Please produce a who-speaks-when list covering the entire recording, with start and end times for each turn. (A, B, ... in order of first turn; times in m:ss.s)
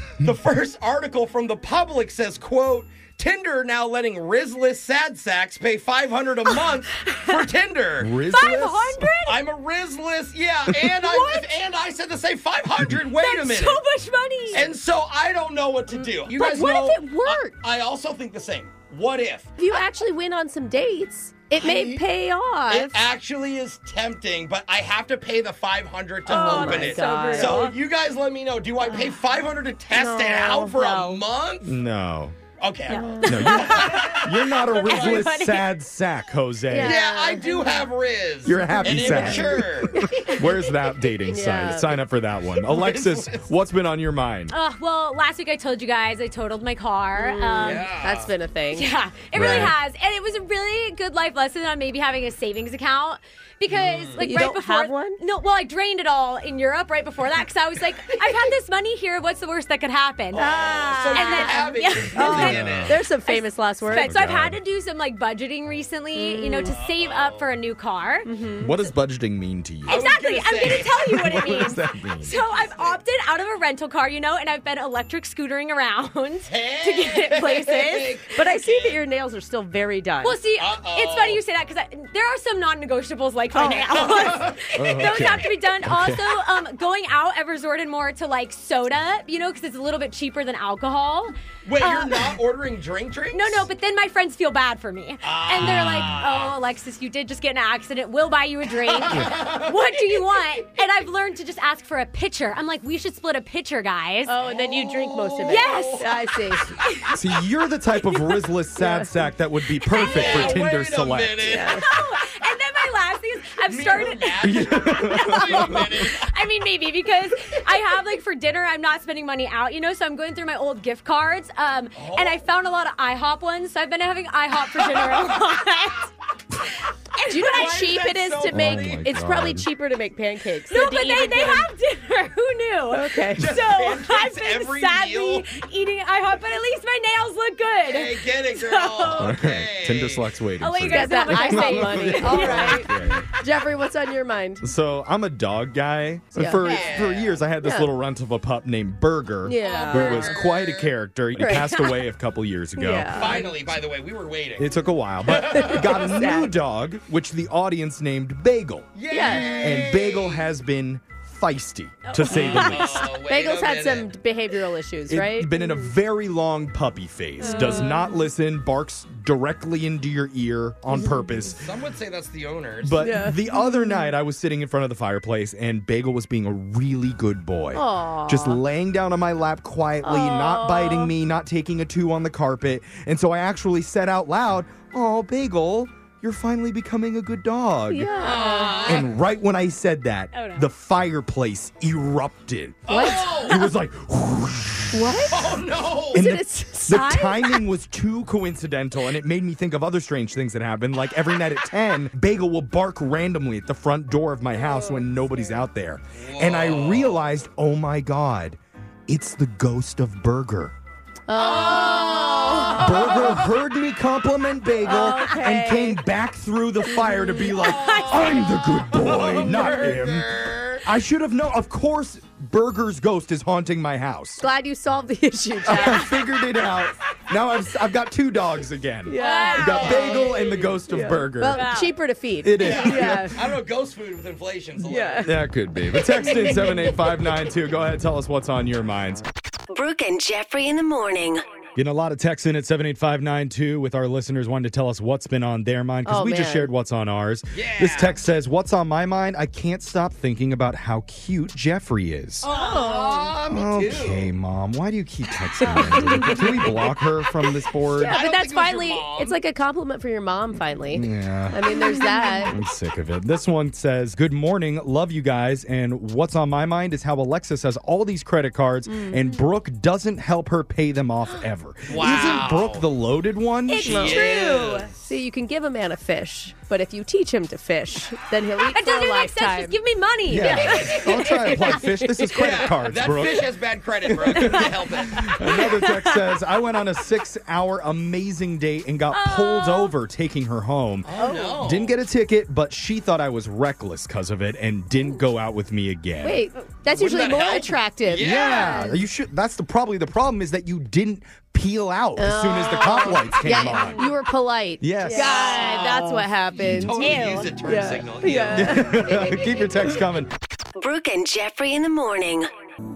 0:00.2-0:08.1 A
0:08.0-0:09.1 B
0:08.3-0:09.4 C
0:09.2-0:13.8 A
0:10.9-0:11.5 C
0:13.1-0:14.7 C
0:14.5-0:19.5 A
0:16.0-0:17.6 D
0:19.6-0:23.1 D
0:21.6-0:22.0 A
0:22.7-0:31.7 A
0:26.3-0:27.8 D
0:26.3-0:27.7 C
0:29.9-0:31.2 D
0:31.6-0:32.4 B
0:32.6-0:35.3 A
0:32.9-0:35.7 C
0:33.0-0:33.6 D
0:33.2-0:37.0 B
0:36.7-0:37.8 D
0:36.8-0:40.1 A
0:38.4-0:44.5 B
0:38.7-0:40.1 D
0:41.3-0:42.0 D
0:42.6-0:43.5 A
0:44.5-0:47.9 C
0:47.2-0:48.9 D
0:47.6-0:48.3 A
0:48.7-1:08.3 C
0:49.3-0:49.8 B
0:53.7-0:54.4 A
0:54.2-0:55.2 D
1:00.3-1:03.0 A
1:00.4-1:04.2 D
1:02.3-1:03.0 B
1:03.8-1:04.6 B
1:06.2-1:06.8 D
1:06.6-1:07.5 A
1:08.3-1:08.8 D
1:08.6-1:10.0 B
1:09.9-1:11.1 A
1:09.9-1:18.0 C
1:10.9-1:12.3 B
1:12.3-1:13.0 A
1:16.5-1:19.0 A
1:17.6-1:20.4 D
1:20.2-1:32.3 C
1:20.5-1:21.4 A
1:23.6-1:24.4 D
1:23.9-1:25.3 A
1:24.7-1:26.4 B
1:31.6-1:33.7 A
1:33.3-1:44.4 C
1:35.2-1:36.6 A
1:35.6-1:36.1 B
1:38.8-1:40.8 A
1:44.3-1:46.7 D
1:44.4-1:46.2 A
1:45.4-1:46.1 C
1:46.8-1:47.2 C
1:47.1-1:51.6 B
1:48.8-1:49.1 D
1:49.9-1:50.6 C
1:49.9-1:51.8 A
1:51.4-1:51.8 D
1:51.7-2:06.1 C
1:53.6-1:56.3 A
1:54.4-1:56.1 B
2:02.0-2:02.5 A
2:04.8-2:05.4 A
2:07.2-2:08.0 C
2:07.3-2:11.7 D
2:07.4-2:09.1 A
2:08.5-2:09.7 B
2:10.7-2:19.4 C
2:12.9-2:13.5 D
2:13.3-2:15.5 A
2:17.8-2:20.3 A
2:19.2-2:23.3 B
2:20.6-2:22.9 C
2:20.9-2:24.7 D
2:24.6-2:33.5 B
2:26.4-2:26.8 D
2:26.6-2:27.5 A
2:26.6-2:26.9 C
2:27.6-2:27.9 D
2:29.4-2:30.4 D
2:29.6-2:30.9 A
2:29.6-2:30.1 C
2:31.4-2:31.8 D
2:31.5-2:32.0 C
2:32.8-2:33.6 D
2:33.1-2:34.7 A
2:34.6-2:38.9 B
2:35.3-2:36.2 A
2:35.3-2:36.5 D
2:39.0-2:40.5 A
2:39.1-2:39.8 D
2:39.6-2:43.1 B
2:42.1-2:42.8 C
2:42.3-2:45.9 D
2:42.3-2:44.1 A
2:45.1-2:51.6 B
2:47.4-2:47.9 C
2:47.4-2:48.2 D
2:50.9-2:51.3 D
2:51.5-2:53.1 A
2:52.8-3:08.1 B
2:53.0-2:54.1 D
2:57.7-2:58.6 D
3:00.0-3:01.1 D
3:07.9-3:09.0 D
3:08.1-3:09.1 A
3:08.5-3:08.9 C
3:08.9-3:15.2 B
3:10.3-3:10.7 C
3:12.9-3:13.6 A
3:12.9-3:13.7 D
3:14.9-3:15.6 D
3:15.3-3:16.3 A
3:16.1-3:17.6 D
3:16.1-3:30.7 B
3:24.6-3:25.6 D
3:26.2-3:27.2 A
3:31.3-3:33.4 D
3:31.4-3:33.3 A
3:32.8-3:44.4 B
3:34.8-3:36.0 D
3:36.9-3:37.7 D
3:37.6-3:38.7 C
3:37.6-3:40.9 A
3:44.4-3:46.2 D
3:45.7-3:51.7 B
3:49.1-3:53.5 D
3:49.2-3:50.6 C
3:49.6-3:50.5 A
3:51.5-3:51.9 C
3:52.4-3:53.4 B
3:52.6-3:55.3 A
3:54.8-3:55.4 D
3:55.2-3:59.3 B
3:56.2-3:56.9 D
3:59.7-4:01.4 E
4:01.8-4:12.5 B
4:06.1-4:06.7 D
4:07.5-4:08.2 A
4:12.4-4:14.3 A
4:12.5-4:13.3 D
4:13.5-4:18.2 B
4:15.6-4:16.8 D
4:18.0-4:22.6 D
4:18.0-4:19.4 A
4:20.9-4:21.6 B
4:22.5-4:34.2 B
4:28.9-4:29.3 D
4:31.9-4:32.8 A
4:33.7-4:34.9 C
4:33.8-4:35.1 A
4:33.9-4:34.2 D
4:35.1-4:39.8 D
4:38.7-4:41.8 C
4:40.3-4:43.5 B
4:40.4-4:42.5 D
4:42.3-4:45.3 A
4:44.0-4:56.5 B
4:45.5-4:46.1 C
4:49.1-4:49.9 C
4:51.0-4:52.0 A
4:51.2-4:51.6 C
4:56.2-4:59.0 D
4:56.9-4:58.9 A
4:58.2-5:04.0 B
5:02.2-5:09.7 D
5:03.7-5:04.1 C
5:04.8-5:05.3 B
5:05.0-5:06.3 C
5:05.2-5:06.0 A
5:06.6-5:06.9 B
5:06.6-5:09.3 A
5:07.0-5:07.5 C
5:08.5-5:10.3 B
5:10.8-5:12.5 E